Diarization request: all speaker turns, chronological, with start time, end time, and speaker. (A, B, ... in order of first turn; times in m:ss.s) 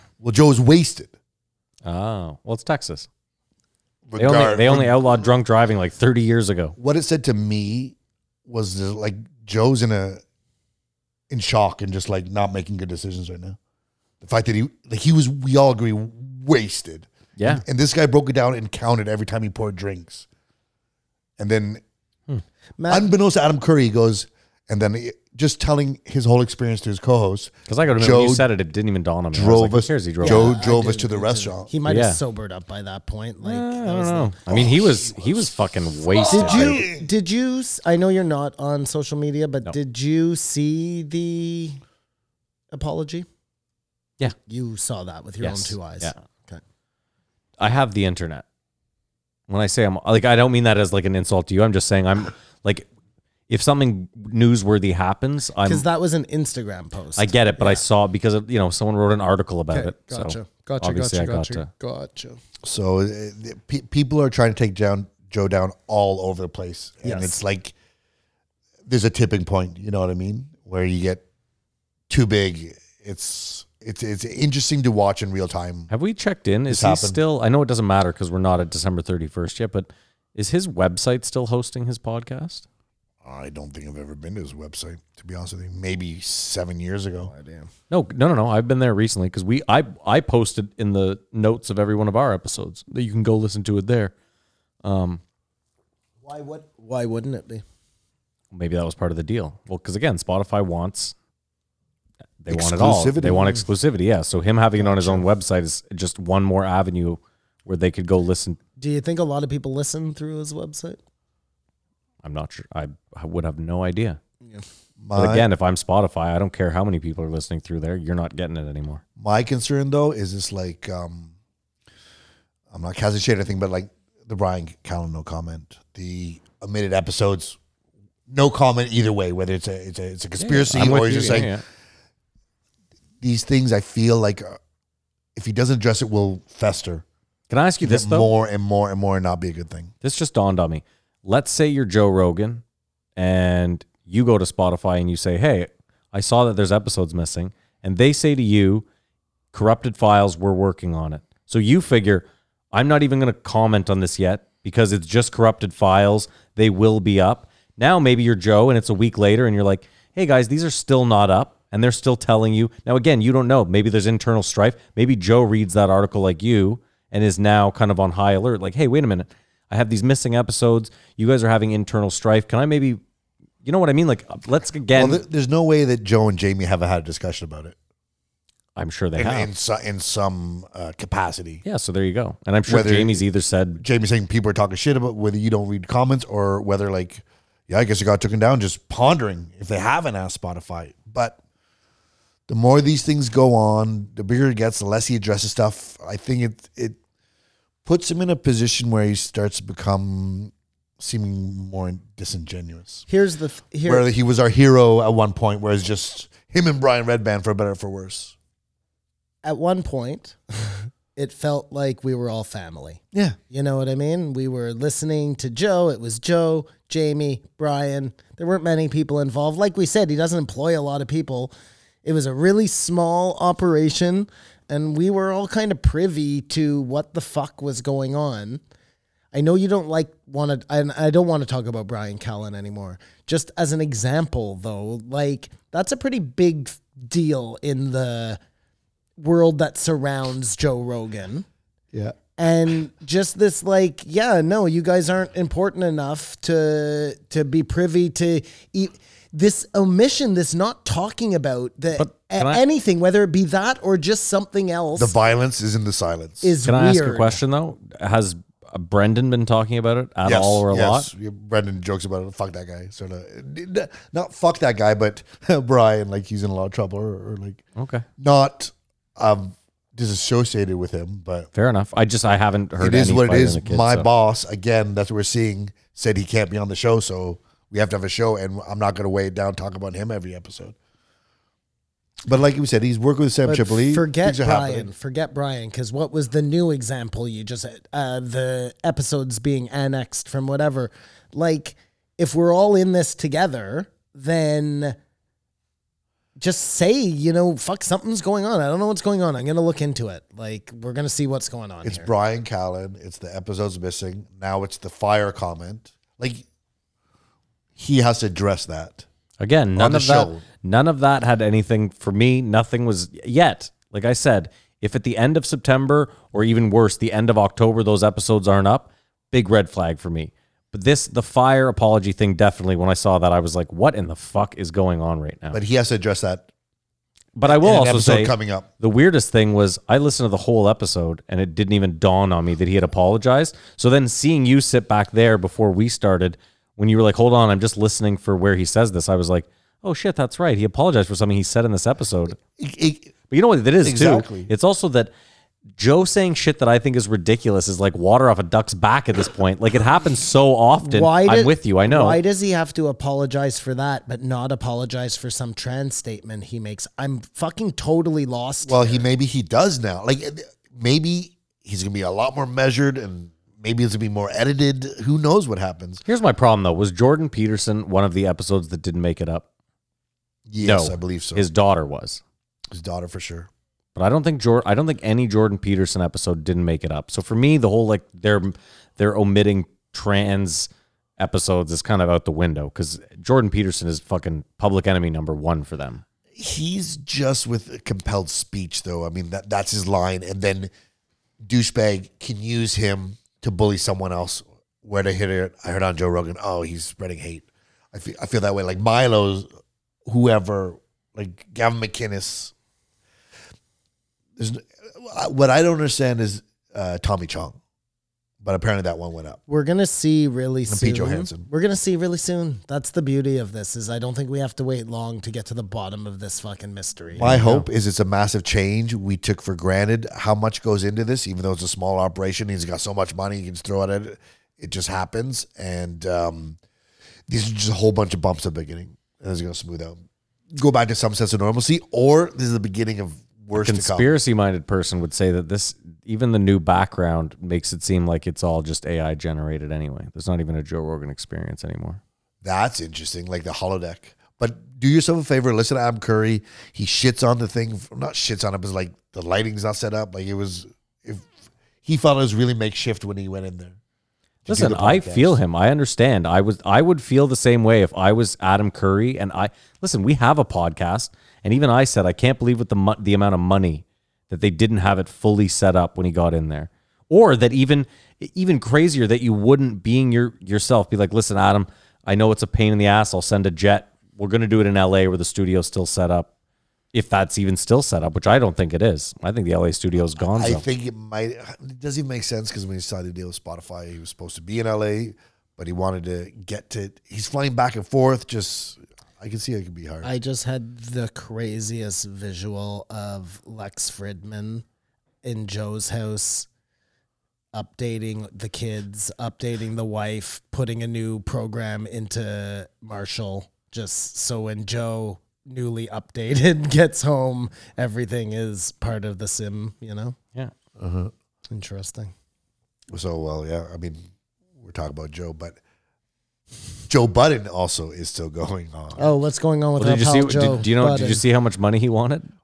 0:00.2-0:01.1 A
0:01.8-0:03.1 B
0:04.1-0:05.0 A
0:04.2-0:06.7 B
0:06.8-0:10.2 A
0:11.3-0:13.6 A
0:14.2-0:20.3 A
0:17.4-0:17.6 B
0:21.4-0:21.8 A
0:22.8-0:23.1 C
0:22.9-0:28.5 A
0:27.7-0:30.5 B
0:29.3-0:31.7 A
0:30.2-0:34.3 C
0:31.8-0:32.2 B
0:33.4-0:36.8 B
0:34.5-0:35.5 A
0:36.0-0:37.1 A
0:36.3-0:41.8 C
0:42.7-0:43.3 C
0:44.4-0:46.6 C
0:45.4-0:46.1 B
0:47.6-0:48.4 B
0:49.5-0:52.9 B
0:53.5-0:55.8 B
0:55.6-0:57.8 C
0:57.2-1:01.7 B
0:59.7-1:02.4 C
1:02.6-1:07.7 A
1:07.0-1:07.4 C
1:08.8-1:11.2 A
1:12.1-1:15.9 A
1:15.9-1:22.6 B
1:16.7-1:17.2 A
1:23.2-1:27.3 A
1:27.3-1:27.7 C
1:27.9-1:34.1 B
1:34.8-1:35.2 B
1:36.2-1:37.6 C
1:38.5-1:41.1 B
1:42.4-1:48.6 B
1:42.5-1:43.6 A
1:44.8-1:45.2 C
1:48.8-1:51.0 C
1:52.2-1:54.2 B
1:55.0-1:55.5 A
1:55.1-1:59.0 B
1:59.2-2:01.3 A
2:02.7-2:07.6 A
2:08.3-2:11.5 A
2:10.4-2:11.6 B
2:13.2-2:14.6 A
2:15.3-2:17.0 A
2:17.5-2:18.3 B
2:17.8-2:19.9 A
2:20.0-2:22.6 B
2:23.2-2:28.8 B
2:29.5-2:53.0 B
2:53.6-2:55.2 B
2:54.9-2:57.8 A
2:58.8-2:59.5 B
2:59.2-3:01.6 A
3:01.6-3:03.8 B
3:02.7-3:03.2 A
3:03.8-3:11.4 A
3:12.5-3:17.0 A
3:17.8-3:23.0 A
3:23.1-3:24.0 C
3:23.8-3:28.3 A
3:29.4-3:41.5 C
3:42.0-3:48.6 C
3:49.3-3:58.4 C
3:59.2-4:01.4 C
4:02.4-4:15.1 C
4:12.0-4:12.6 B
4:15.0-4:16.6 A
4:16.4-4:17.4 C
4:16.6-4:21.1 B
4:20.2-4:27.6 A
4:27.8-4:28.0 B
4:28.2-4:31.5 A
4:31.5-4:34.1 B
4:32.8-4:40.8 A
4:42.2-4:44.9 A
4:43.4-4:55.0 C
4:56.4-5:02.1 C
5:01.8-5:06.4 A
5:07.8-5:09.0 A
5:09.4-5:25.6 B
5:09.7-5:10.4 A
5:25.5-5:26.5 A
5:27.4-5:42.4 B
5:27.4-5:28.7 A
5:42.5-5:43.1 A
5:43.3-5:45.1 B
5:43.8-5:44.5 A
5:45.8-5:52.2 B
5:50.8-5:59.0 C
5:58.6-6:06.0 A
6:06.0-6:09.4 B
6:10.5-6:11.4 A
6:10.6-6:12.2 B
6:12.7-6:13.5 A
6:14.0-6:26.0 B
6:26.3-6:30.7 A
6:31.4-6:39.5 A
6:40.0-6:42.5 A
6:44.4-6:47.6 A
6:48.4-6:49.4 A
6:49.5-6:57.3 C
6:50.7-6:51.5 A
6:57.1-7:06.6 A
6:57.2-6:57.6 B
7:07.3-7:10.0 A
7:10.5-7:14.1 A
7:13.5-7:22.0 B
7:22.4-7:31.3 A
7:31.8-7:33.8 A
7:34.4-7:35.4 A
7:34.5-7:56.3 B
7:56.9-8:00.6 B
8:00.2-8:10.1 A
8:10.0-8:14.6 C
8:15.2-8:16.5 C
8:17.5-8:30.2 C
8:30.8-8:31.1 A
8:31.5-8:32.1 C
8:32.9-8:34.1 A
8:34.6-8:35.6 A
8:36.9-8:39.1 A
8:39.0-8:41.2 C
8:39.8-8:42.3 B